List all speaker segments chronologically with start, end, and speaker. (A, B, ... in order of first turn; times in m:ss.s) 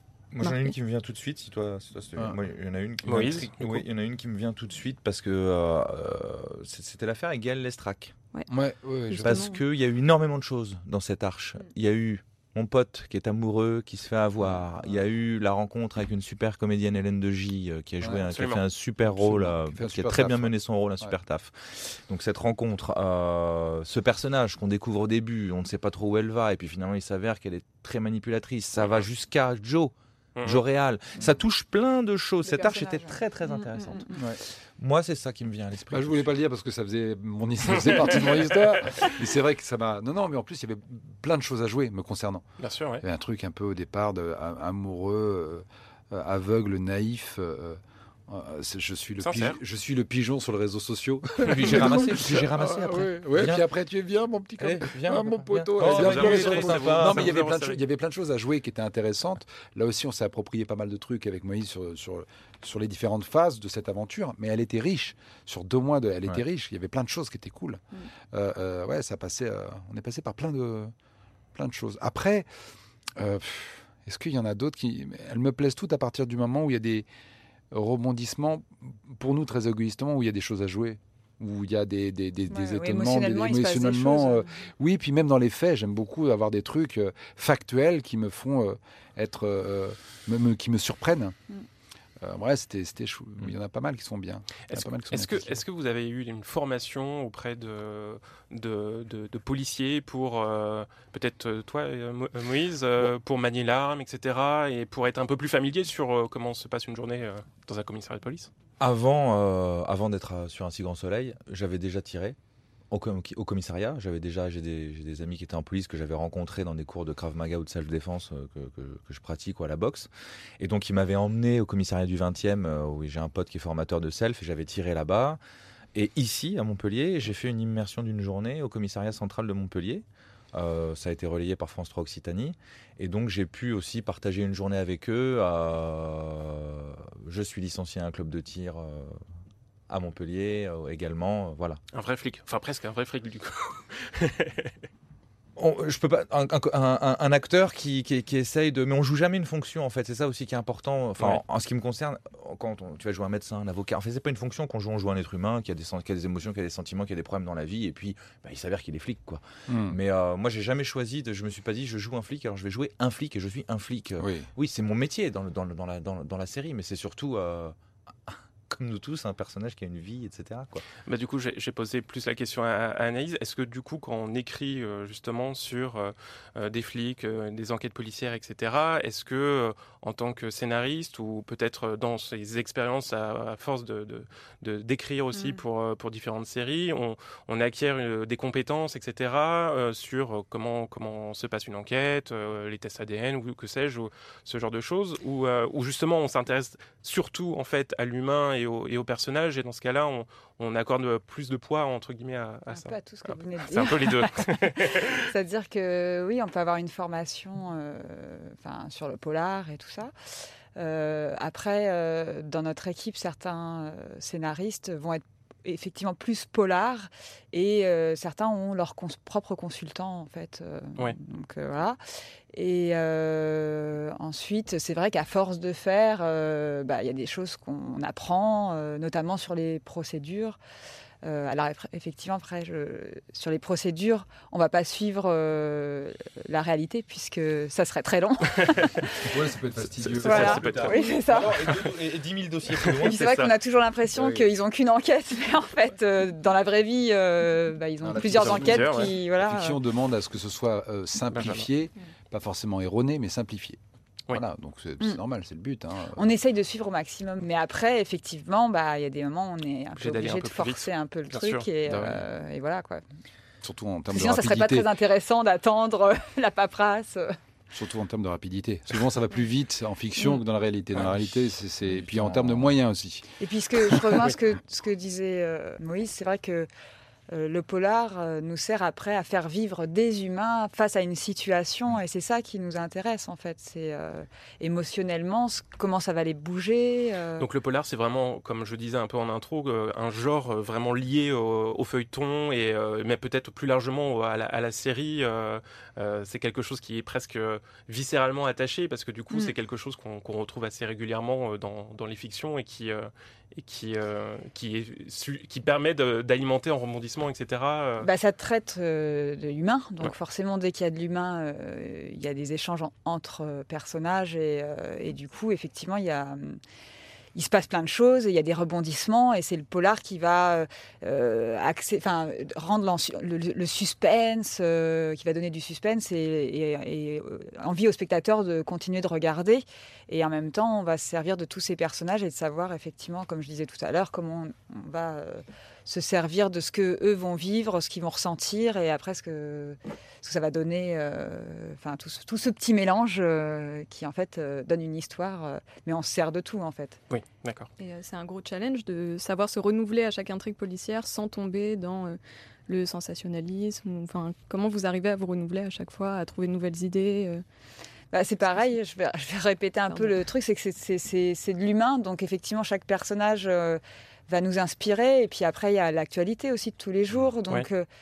0:00.3-0:08.2 A
0:00.4-0:00.7 B
0:03.0-0:03.8 C
0:08.5-0:09.4 D
0:09.1-0:09.6 B
0:09.2-0:36.3 A
0:14.4-0:15.0 D
0:18.3-0:18.6 C
0:19.0-0:21.2 D
0:30.4-0:30.6 C
0:32.4-0:34.1 E
0:34.1-0:34.4 D
0:35.9-0:42.4 D
0:37.8-0:39.1 C
0:42.6-0:43.0 C
0:43.0-1:10.9 D
0:49.2-0:49.6 C
0:51.4-0:53.6 A
0:54.6-0:57.4 A
0:55.8-0:57.8 C
1:11.5-1:12.5 D
1:13.2-1:17.1 D
1:17.7-1:31.4 D
1:22.5-1:24.6 E
1:32.2-1:35.6 D
1:34.7-1:48.5 C
1:48.8-1:52.4 A
1:52.9-2:05.4 A
2:05.9-2:19.2 A
2:19.9-2:21.8 A
2:21.9-2:24.7 C
2:25.6-2:47.7 A
2:39.7-2:40.0 D
2:44.2-2:44.5 D
2:48.3-2:50.8 A
2:51.0-3:25.2 C
3:05.3-3:05.6 E
3:22.7-3:30.1 E
3:30.8-3:42.0 E
3:42.5-3:50.6 E
3:51.2-3:59.3 E
3:58.6-3:58.9 C
3:59.3-4:00.8 D
4:00.0-4:01.9 C
4:00.2-4:01.7 E
4:00.2-4:03.5 A
4:03.0-4:09.8 E
4:03.0-4:03.4 C
4:04.2-4:04.4 D
4:08.0-4:13.8 D
4:08.3-4:09.1 C
4:11.3-4:11.7 C
4:14.3-4:16.2 D
4:16.1-4:23.0 E
4:20.0-4:22.2 C
4:23.6-4:24.9 D
4:24.1-4:27.4 E
4:27.7-4:34.3 D
4:32.0-4:32.6 A
4:33.4-4:36.7 E
4:37.3-4:47.5 E
4:47.4-5:08.1 C
5:08.0-5:16.6 E
5:17.3-5:47.0 E
5:47.1-5:47.7 C
5:47.8-5:57.4 B
5:58.1-6:07.8 E
5:59.9-6:00.1 B